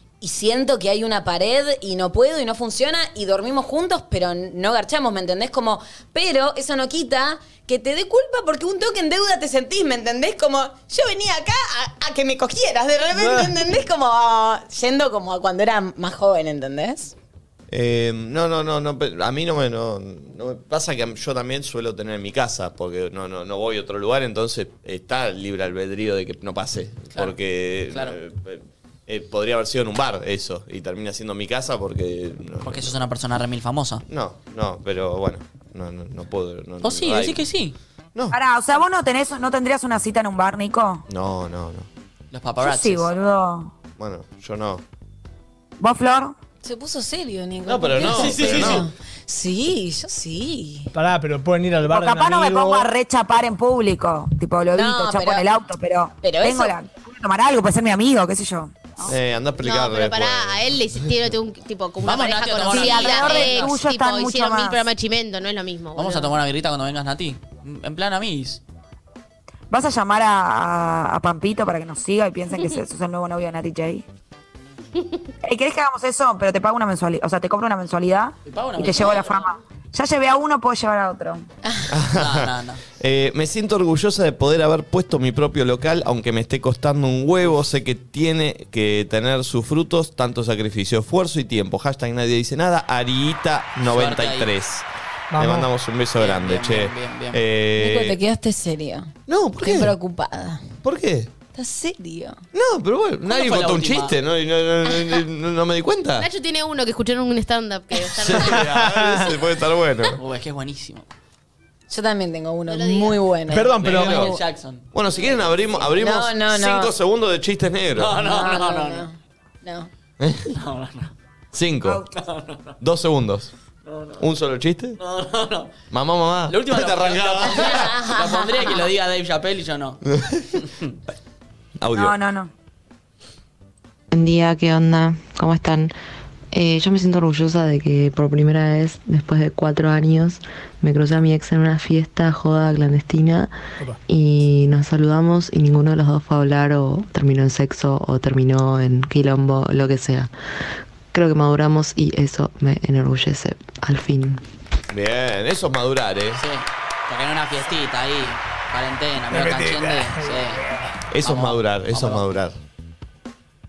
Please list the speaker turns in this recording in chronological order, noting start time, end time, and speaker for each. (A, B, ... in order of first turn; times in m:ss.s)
0:00.2-0:17.1 A
0:13.2-0:13.5 B
0:17.7-0:32.9 C
0:27.9-0:28.2 D
0:32.6-0:34.0 D
0:34.1-0:37.4 C
0:36.8-0:37.8 D
0:38.3-0:41.0 E
0:41.1-0:41.9 C
0:42.3-0:43.1 D
0:42.6-0:43.7 E
0:44.0-0:44.8 C
0:45.8-0:46.4 E
0:46.6-0:50.9 A
0:47.6-0:48.9 C
0:48.0-0:48.9 D
0:50.9-0:52.9 B
0:51.9-0:59.1 E
0:54.7-0:55.5 A
0:56.2-0:56.7 A
0:59.0-1:01.1 C
0:59.6-1:06.4 F
1:02.0-1:03.8 D
1:02.7-1:04.8 E
1:06.0-1:08.6 D
1:09.7-1:14.0 E
1:15.0-1:15.2 F
1:15.4-1:21.5 E
1:18.5-1:19.4 D
1:21.9-1:34.8 C
1:22.1-1:22.8 D
1:33.8-1:34.5 D
1:35.3-1:35.7 B
1:35.4-1:38.2 C
1:36.2-1:37.4 D
1:37.8-1:40.6 A
1:39.3-1:39.9 C
1:40.8-1:41.3 C
1:41.5-1:42.4 A
1:42.5-1:46.3 C
1:43.2-1:44.1 D
1:46.2-1:48.7 F
1:48.2-1:50.2 C
1:48.3-1:49.3 B
1:50.1-1:51.1 D
1:51.9-1:54.4 A
1:52.7-1:53.2 F
1:53.5-1:54.3 B
1:53.6-1:55.6 D
1:53.9-1:54.3 C
1:54.9-1:58.2 C
1:56.0-1:56.9 A
1:57.9-1:59.0 D
1:58.1-1:59.9 A
2:00.2-2:00.5 C
2:00.5-2:01.1 D
2:01.5-2:02.0 C
2:01.8-2:02.1 E
2:02.2-2:02.7 D
2:02.8-2:03.5 C
2:03.9-2:04.2 D
2:04.2-2:05.0 C
2:05.0-2:05.7 D
2:05.9-2:07.9 C
2:06.5-2:10.0 D
2:07.5-2:08.8 A
2:10.2-2:10.4 C
2:10.6-2:10.9 D
2:11.8-2:12.1 C
2:11.9-2:12.5 E
2:14.1-2:15.9 G
2:16.5-2:23.5 G
2:24.1-2:30.3 G
2:31.1-2:34.4 G
2:34.9-2:36.4 C
2:36.4-2:40.7 D
2:39.3-2:39.8 C
2:40.2-2:40.4 B
2:41.1-2:42.6 C
2:41.2-2:42.2 D